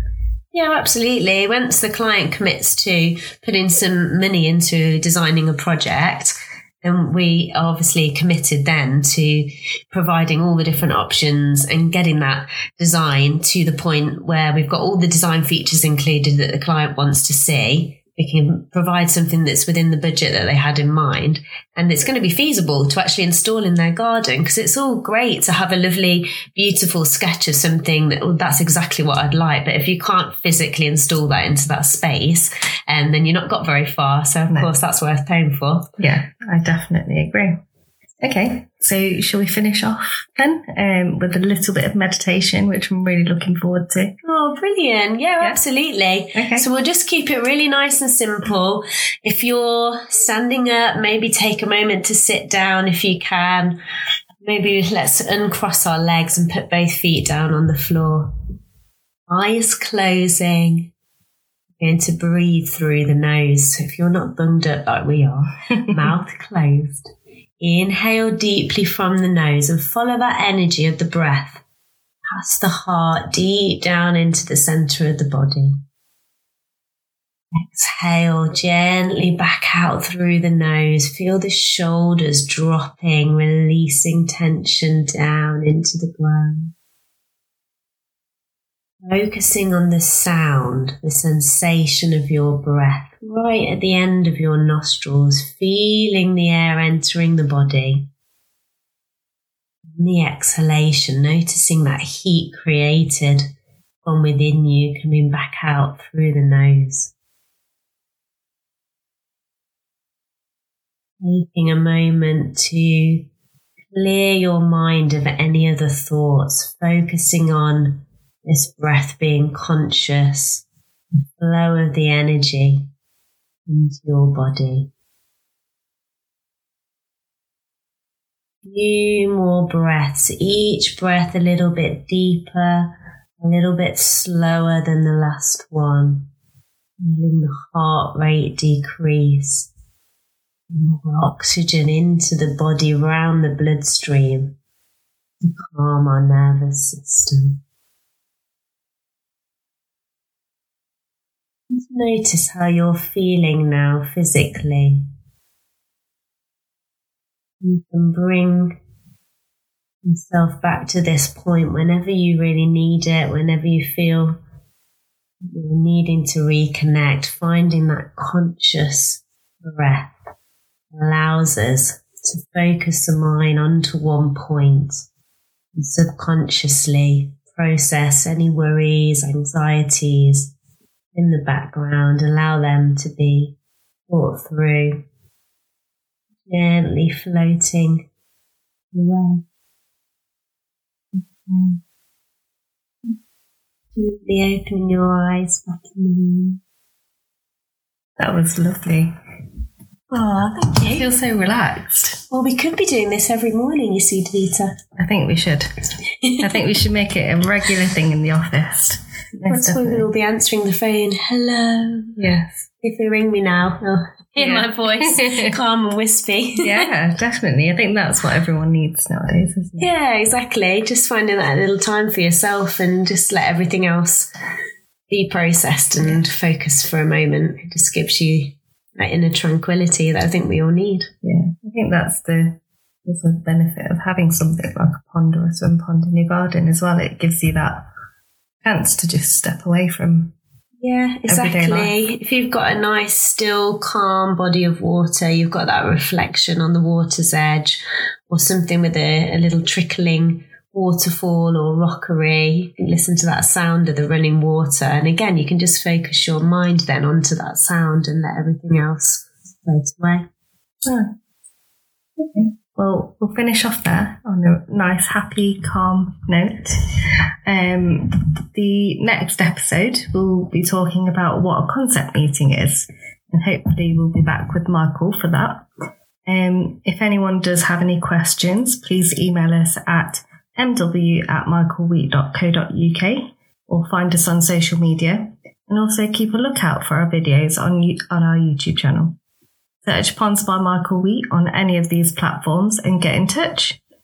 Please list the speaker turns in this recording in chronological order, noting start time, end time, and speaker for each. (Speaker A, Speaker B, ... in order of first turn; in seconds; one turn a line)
Speaker A: 0.5-35.9
Speaker B: 36.0-37.6
Speaker B: 38.2-44.1
Speaker A: 44.2-53.8
Speaker B: 46.4-46.7
Speaker A: 54.4-58.3
Speaker A: 59.3-60.9
Speaker A: 61.8-71.6
Speaker A: 72.3-75.8
Speaker A: 77.6-86.7
Speaker A: 89.0-98.1
Speaker A: 100.0-103.5
Speaker A: 104.0-107.1
Speaker A: 111.2-113.3
Speaker A: 113.9-120.6
Speaker A: 121.4-122.9
Speaker A: 123.7-124.9
Speaker A: 128.7-136.3
Speaker A: 137.0-139.7
Speaker A: 140.7-144.6
Speaker A: 145.4-147.6
Speaker A: 151.7-155.1
Speaker A: 157.6-158.8
Speaker A: 160.1-164.4
Speaker A: 165.4-170.1
Speaker A: 170.9-175.0
Speaker A: 175.8-180.5
Speaker A: 181.2-183.6
Speaker A: 184.1-185.1
Speaker A: 186.5-188.1
Speaker A: 188.9-189.4
Speaker B: 191.4-191.8
Speaker A: 194.0-196.6
Speaker B: 198.2-199.1
Speaker A: 200.1-201.1
Speaker B: 200.8-202.2
Speaker A: 202.3-204.8
Speaker B: 205.0-205.7
Speaker A: 206.2-206.5
Speaker B: 206.4-210.1
Speaker A: 209.5-212.2
Speaker B: 212.2-212.7
Speaker A: 212.8-216.8
Speaker B: 214.4-215.5
Speaker B: 216.6-219.9
Speaker A: 219.8-224.3
Speaker A: 225.1-231.1
Speaker B: 231.2-237.9
Speaker B: 238.6-240.3
Speaker A: 240.8-260.3
Speaker B: 241.3-241.9
Speaker B: 260.9-261.1
Speaker B: 262.2-266.8
Speaker B: 267.4-275.7
Speaker B: 276.3-289.2
Speaker B: 289.8-293.8